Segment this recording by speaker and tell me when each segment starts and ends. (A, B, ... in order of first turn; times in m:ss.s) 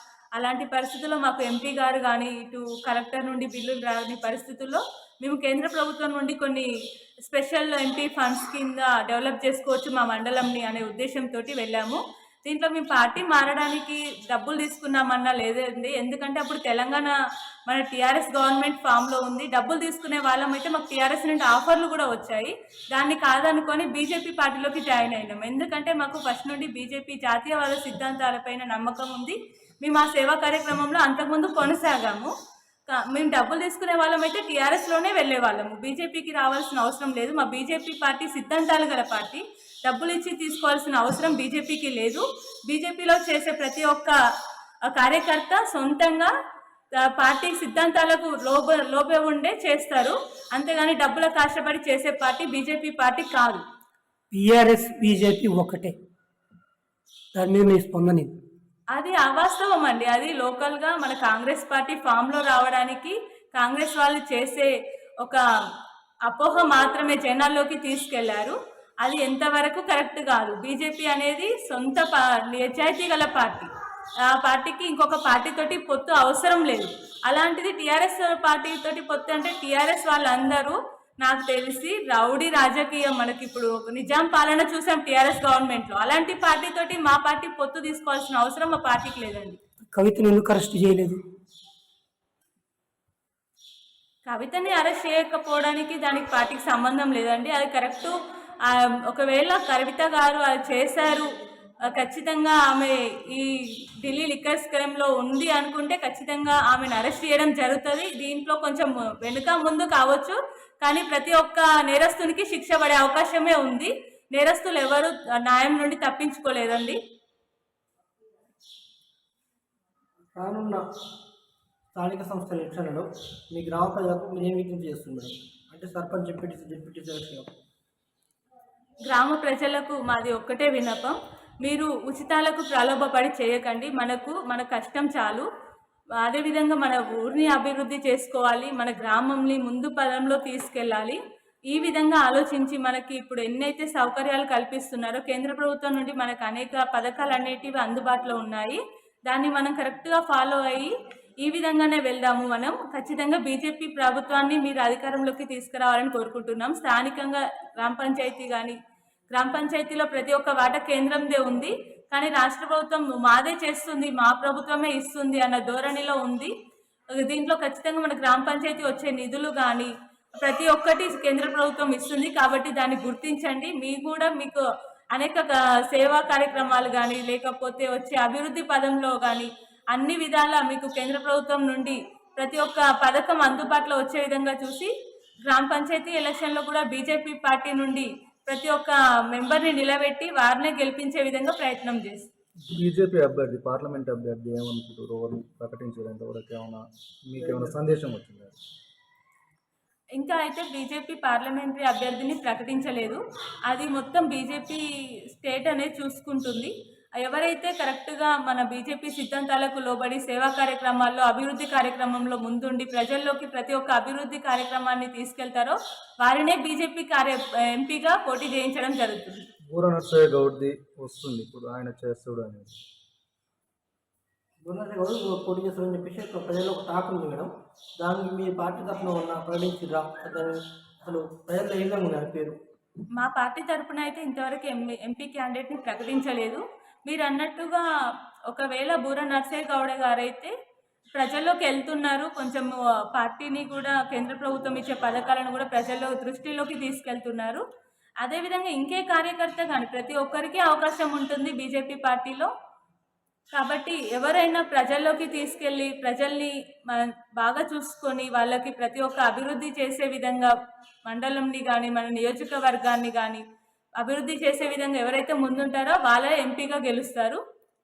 0:00.4-0:06.7 A
0:07.3-0:17.2 A
0:17.7-0:32.3 A
0:32.9-0:44.2 A
0:44.9-0:46.3 A
0:47.0-0:53.6 A
0:54.3-0:56.0 B
0:57.4-0:58.3 B
0:58.9-1:04.7 A
1:06.3-1:13.7 A
1:14.2-1:29.6 A
1:29.9-1:31.2 B
1:34.3-1:41.3 A
1:41.8-1:57.0 A
2:00.4-2:00.8 C
2:02.0-2:07.5 C
2:09.1-2:15.5 A
2:16.2-2:38.8 A
2:39.3-2:46.5 A
2:47.1-3:04.9 A
3:05.4-3:12.3 A
3:12.7-3:18.6 D
3:17.4-3:17.7 C
3:20.2-3:39.4 A
3:39.7-3:42.7 D
3:44.6-3:52.6 C
3:53.2-3:57.9 A
3:58.5-4:00.5 A
4:01.2-4:07.6 A
4:08.2-4:12.5 A
4:13.5-4:20.5 A
4:21.0-4:23.4 A
4:24.0-4:27.4 A